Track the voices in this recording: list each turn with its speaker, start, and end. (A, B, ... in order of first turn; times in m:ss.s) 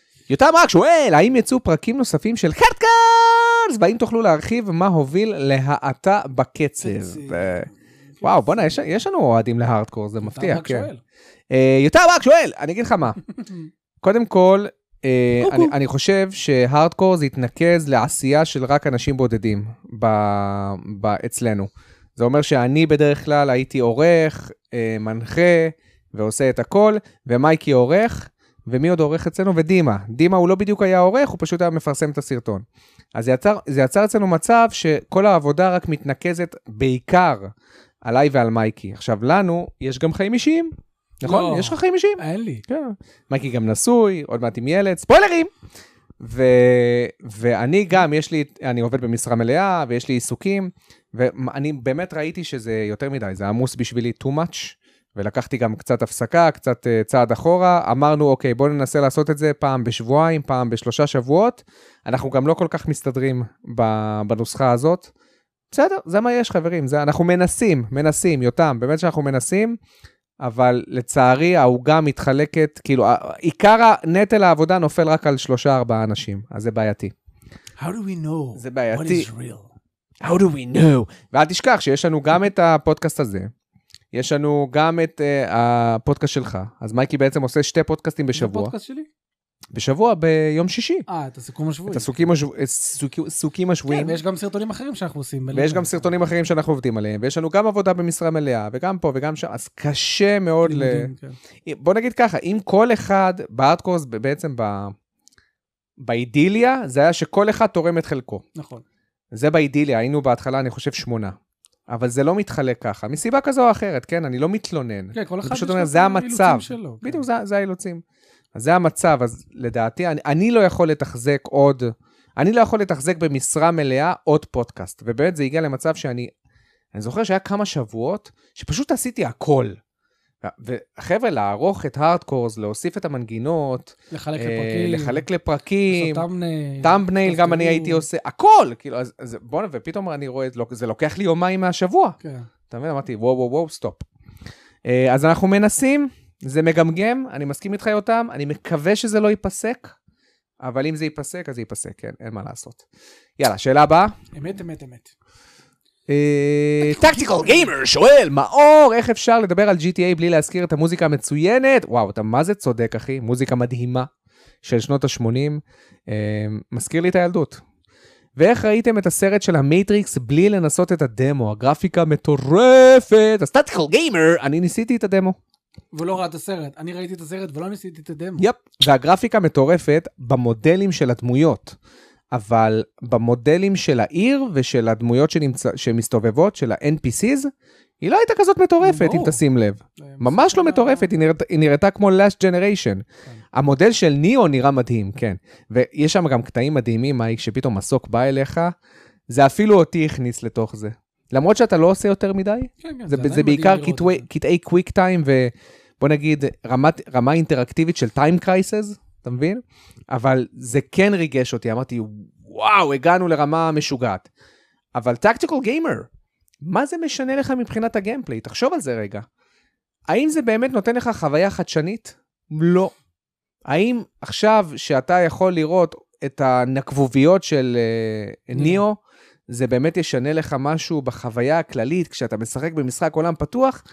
0:00.3-0:07.7 A
0:06.8-0:08.8 B
0:08.2-0:10.9 A
0:10.2-0:11.0 B
0:11.5-0:13.2 A
0:14.0-0:45.5 A
0:15.4-0:15.7 B
0:41.2-0:42.6 B
0:46.2-1:05.1 A
1:05.7-1:09.8 A
1:10.4-1:17.1 A
1:17.8-1:19.7 B
1:18.5-1:19.3 A
1:20.2-1:23.5 A
1:24.1-1:28.7 A
1:28.3-1:29.1 B
1:29.7-1:31.0 A
1:31.1-1:32.2 B
1:31.9-1:34.2 A
1:33.9-1:36.1 B
1:35.5-1:41.1 A
1:40.6-1:41.4 B
1:41.6-1:44.9 A
1:46.0-1:48.4 A
1:48.5-1:48.8 B
1:49.3-1:51.3 A
1:51.9-1:58.0 A
1:55.1-1:57.3 B
1:58.5-2:06.3 A
2:06.9-2:09.8 A
2:10.4-2:16.2 A
2:14.1-2:15.2 B
2:15.9-2:18.1 B
2:16.8-2:22.2 A
2:22.2-2:22.5 B
2:22.7-2:24.0 A
2:24.8-2:30.0 A
2:30.6-2:32.8 A
2:33.4-2:34.1 A
2:34.3-2:35.1 B
2:36.1-2:44.1 A
2:36.8-2:37.7 B
2:44.6-2:47.6 A
2:48.4-2:55.4 A
2:55.9-2:58.5 B
2:58.4-3:01.8 A
3:02.3-3:18.7 A
3:08.8-3:09.4 B
3:10.0-3:11.1 B
3:19.3-3:34.3 A
3:22.8-3:24.2 B
3:34.9-3:36.1 A
3:36.6-3:39.2 A
3:40.1-3:42.9 A
3:43.7-3:53.8 A
3:48.5-3:48.8 B